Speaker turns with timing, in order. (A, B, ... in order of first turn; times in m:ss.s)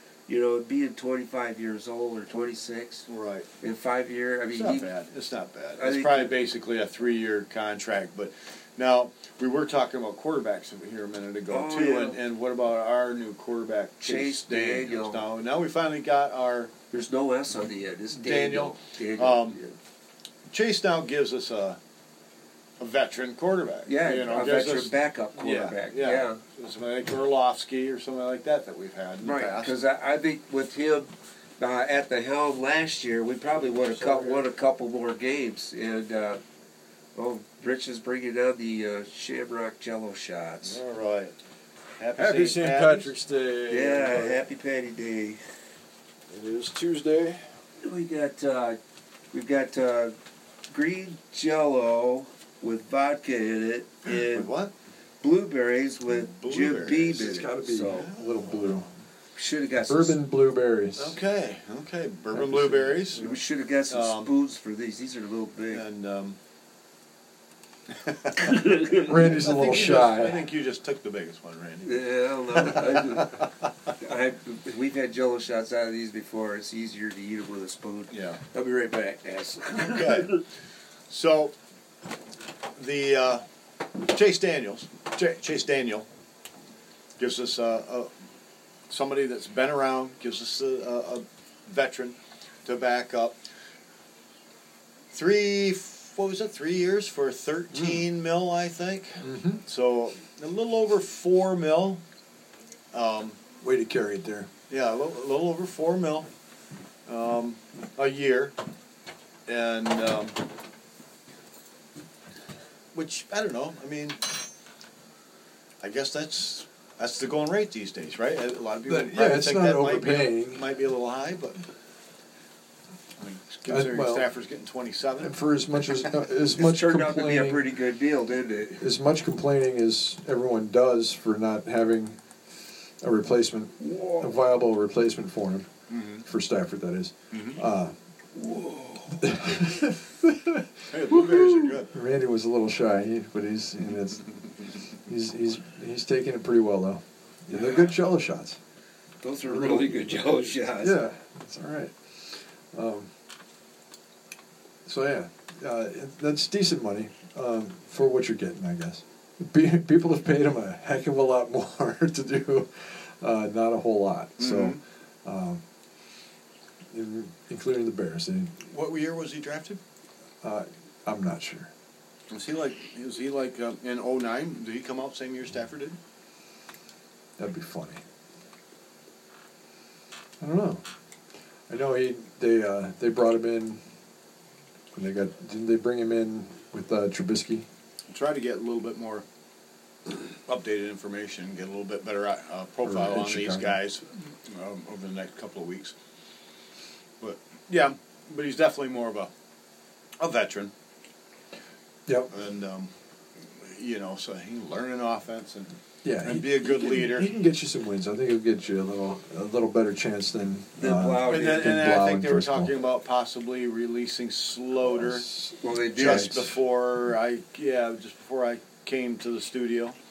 0:00.3-0:03.1 A
0:03.1-0:03.5 B
0:03.6-0:04.9 A
0:04.5-0:16.7 B
0:05.8-0:06.3 A
0:11.5-0:12.2 A
0:14.0-0:15.2 A
0:16.9-0:19.8 A
0:18.1-0:19.6 B
0:20.5-0:21.8 B
0:22.8-0:29.8 B
0:23.9-0:26.4 A
0:29.2-0:36.4 A
0:33.6-0:34.5 C
0:37.2-0:40.8 A
0:40.6-0:41.4 B
0:42.0-0:43.1 B
0:42.2-0:44.4 C
0:43.7-0:45.4 A
0:46.3-0:47.5 C
0:47.8-0:48.8 A
0:49.3-0:50.2 A
0:50.7-0:54.5 A
0:54.1-0:54.7 B
0:55.2-0:58.1 A
0:56.1-0:58.9 B
0:57.2-0:58.9 C
0:59.4-1:00.2 A
0:59.9-1:01.2 C
1:01.0-1:04.3 B
1:02.3-1:03.0 C
1:03.1-1:05.8 A
1:05.7-1:06.4 B
1:08.0-1:13.4 B
1:08.4-1:09.2 A
1:08.9-1:10.4 C
1:11.8-1:13.5 A
1:14.0-1:20.4 A
1:18.1-1:18.4 B
1:19.8-1:20.4 B
1:21.1-1:21.5 B
1:22.8-1:23.4 B
1:24.0-1:26.1 B
1:27.2-1:28.1 B
1:28.9-1:33.4 B
1:35.1-1:42.0 B
1:39.2-1:39.6 C
1:42.9-1:43.4 B
1:43.6-1:44.5 C
1:44.7-1:46.3 B
1:47.1-1:48.6 B
1:49.5-1:50.4 B
1:52.9-1:54.2 B
1:55.8-2:01.6 B
1:58.9-2:00.7 C
2:03.2-2:05.3 B
2:03.7-2:04.3 C
2:05.2-2:07.7 C
2:06.6-2:08.9 A
2:08.8-2:12.2 C
2:13.0-2:15.7 C
2:13.8-2:14.3 A
2:15.9-2:16.2 B
2:16.2-2:18.0 C
2:17.3-2:17.6 B
2:18.4-2:19.2 A
2:19.1-2:24.3 C
2:20.9-2:21.9 B
2:25.0-2:28.6 C
2:27.5-2:28.0 A
2:29.2-2:31.0 A
2:29.4-2:33.1 C
2:34.9-2:45.6 C
2:44.4-2:44.8 B
2:46.9-2:48.6 C
2:48.7-2:49.8 B
2:50.4-2:51.7 C
2:52.3-2:56.0 B
2:57.4-2:58.0 C
3:00.4-3:00.8 C
3:01.7-3:03.8 C
3:05.0-3:07.7 C
3:08.1-3:09.2 B
3:10.5-3:15.9 B
3:12.8-3:13.8 C
3:17.2-3:19.3 B
3:20.2-3:20.7 B
3:22.3-3:22.9 B
3:23.5-3:25.7 B
3:26.0-3:32.7 C
3:26.2-3:27.3 B
3:30.8-3:31.7 A
3:31.3-3:35.3 B
3:34.9-3:36.5 C
3:35.6-3:36.5 A
3:36.0-3:40.0 B